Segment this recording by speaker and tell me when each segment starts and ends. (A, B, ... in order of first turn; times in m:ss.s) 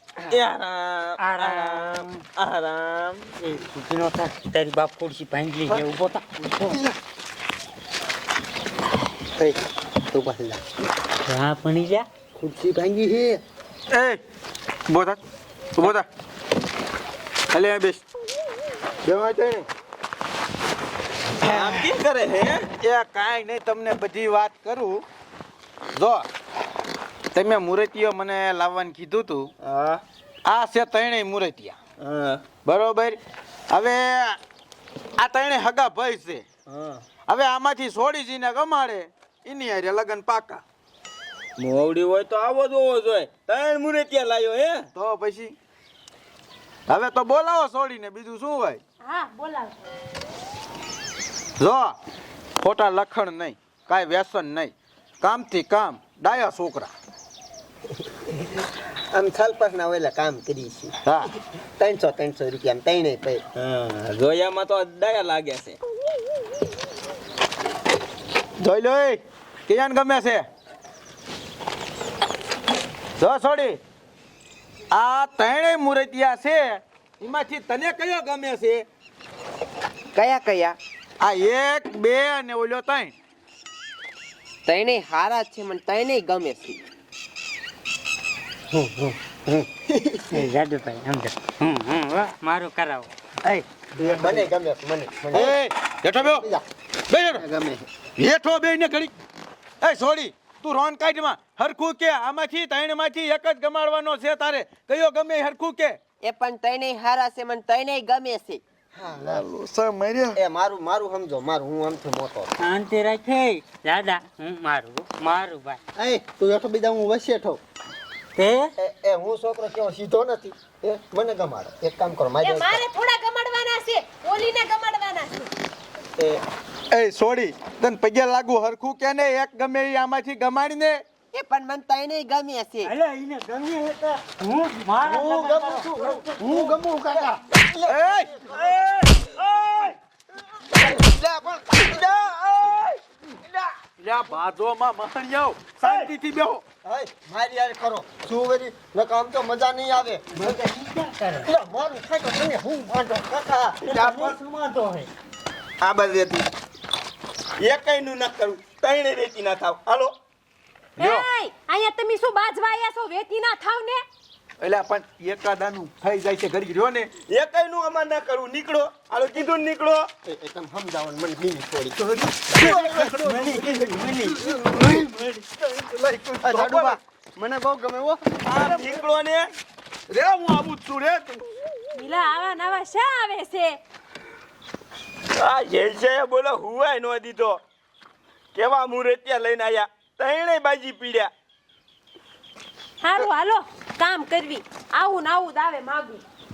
0:00.3-0:03.3 A
0:01.2-0:02.2 B
0:03.4-0:06.8 B
0:10.1-0:10.6 C
0:11.2-0:12.1 B
0:12.4-0:13.4 C
0:13.9-0:14.2 D
0:14.9-0:15.2 D
0:15.8-0:16.0 D
0:17.5-0:18.0 D
0:19.0-0:19.6 C
0:21.4-0:22.6 A
0:22.8-0:25.0 D
0:26.0-0:26.3 D
0:27.3-0:29.5 D
0:29.6-0:30.0 A
0:30.4-0:31.8 D
0:32.0-0:32.4 A
0:32.6-0:33.2 D
0:33.7-0:34.4 D
0:35.2-0:36.4 D
0:36.7-0:37.0 A
0:37.3-0:40.6 D
0:41.6-0:44.9 A
0:44.9-0:45.6 D
0:46.9-0:48.8 D
0:49.0-0:49.9 E
0:51.6-0:52.0 D
0:52.6-0:56.9 D
0:59.1-1:01.0 C
1:01.8-1:03.4 C
1:03.5-1:05.8 A
1:08.6-1:10.4 D
1:13.2-1:13.8 D
1:14.9-1:18.8 D
1:20.1-1:20.8 F
1:21.2-1:23.1 D
1:24.6-1:26.8 F
1:28.7-1:30.4 C
1:30.3-1:33.6 B
1:34.0-1:35.6 C
1:35.3-1:36.5 D
1:36.2-1:36.6 C
1:37.1-1:37.4 D
1:37.3-1:37.8 C
1:38.2-1:39.1 D
1:39.8-1:46.0 D
1:46.2-1:48.6 F
1:48.9-1:49.4 C
1:49.3-1:50.4 D
1:50.3-1:52.5 C
1:52.6-1:55.8 B
1:56.0-1:57.6 C
1:58.4-1:58.7 B
1:58.8-2:02.8 C
2:02.4-2:05.5 E
2:06.2-2:06.4 C
2:06.9-2:11.0 D
2:11.3-2:12.9 F
2:12.8-2:16.5 B
2:15.0-2:18.6 C
2:17.9-2:19.9 D
2:20.7-2:23.7 C
2:24.0-2:26.6 D
2:26.8-2:30.2 C
2:30.4-2:31.5 B
2:31.4-2:33.8 C
2:33.8-2:34.4 A
2:33.9-2:35.1 B
2:35.8-2:36.5 A
2:37.6-2:40.1 A
2:41.0-2:41.2 D
2:41.0-2:44.0 E
2:44.6-2:47.1 D
2:47.3-2:50.1 A
2:50.2-2:52.0 C
2:52.0-2:57.0 D
2:52.5-2:53.2 C
2:54.6-2:55.0 C
2:56.4-2:58.3 C
2:58.4-2:59.5 A
2:58.5-2:59.0 D
3:00.1-3:01.4 D
3:02.0-3:03.8 E
3:05.4-3:07.6 A
3:08.5-3:11.3 A
3:13.0-3:16.2 E